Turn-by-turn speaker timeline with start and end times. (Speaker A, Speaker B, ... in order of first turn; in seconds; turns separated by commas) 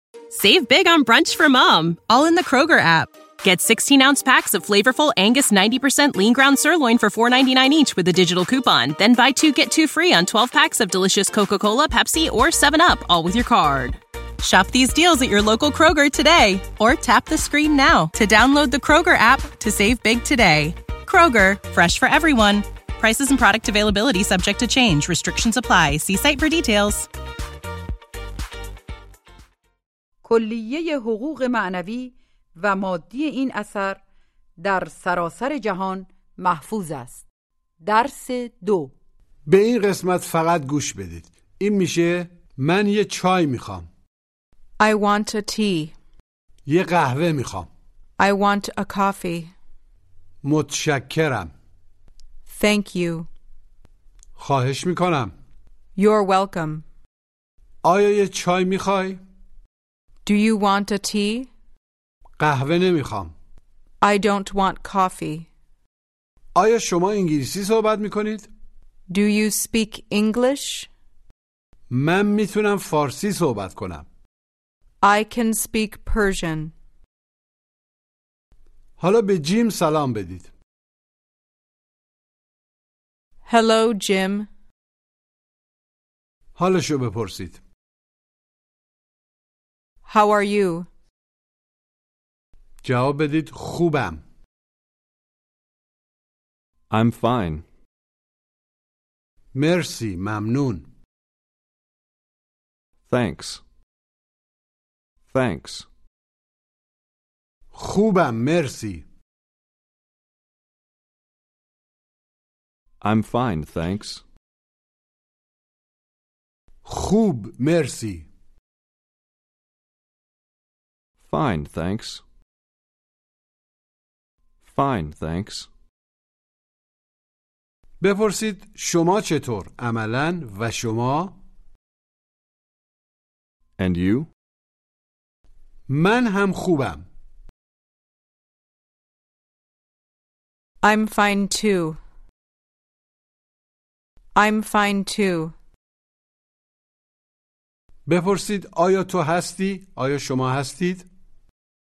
Speaker A: 0.3-27.1, Speaker B: 30.2-34.0, Speaker B: 34.6-37.2, Speaker B: 37.8-38.9, Speaker C: 39.5-43.9, Speaker D: 44.8-45.9, Speaker C: 46.7-47.7, Speaker D: 48.2-49.5, Speaker C: 50.4-51.5, Speaker D: 52.5-53.3, Speaker C: 54.4-55.3, Speaker D: 56.0-56.8, Speaker C: 57.8-59.2, Speaker D: 60.2-61.5, Speaker C: 62.4-63.3, Speaker D: 64.0-65.5, Speaker C: 66.5-68.5, Speaker D: 69.1-70.9, Speaker C: 71.9-74.0, Speaker D: 75.0-76.7, Speaker C: 79.0-80.5, Speaker D: 83.5-84.5, Speaker C: 86.6-87.6, Speaker D: 90.1-90.9, Speaker C: 92.8-94.2, Speaker E: 96.9-97.7, Speaker C: 99.5-100.8, Speaker E: 103.1-103.6, Speaker E: 105.3-105.9, Speaker C: 107.7-109.0, Speaker E: 113.0-114.2, Speaker C: 116.8-118.3, Speaker E: 121.2-122.2, Speaker E: 124.6-125.7, Speaker C: 128.0-131.4, Speaker E: 133.8-134.3, Speaker C: 135.9-137.1, Speaker D: 140.8-142.0, Speaker D: 144.3-145.6, Speaker C: 148.1-151.1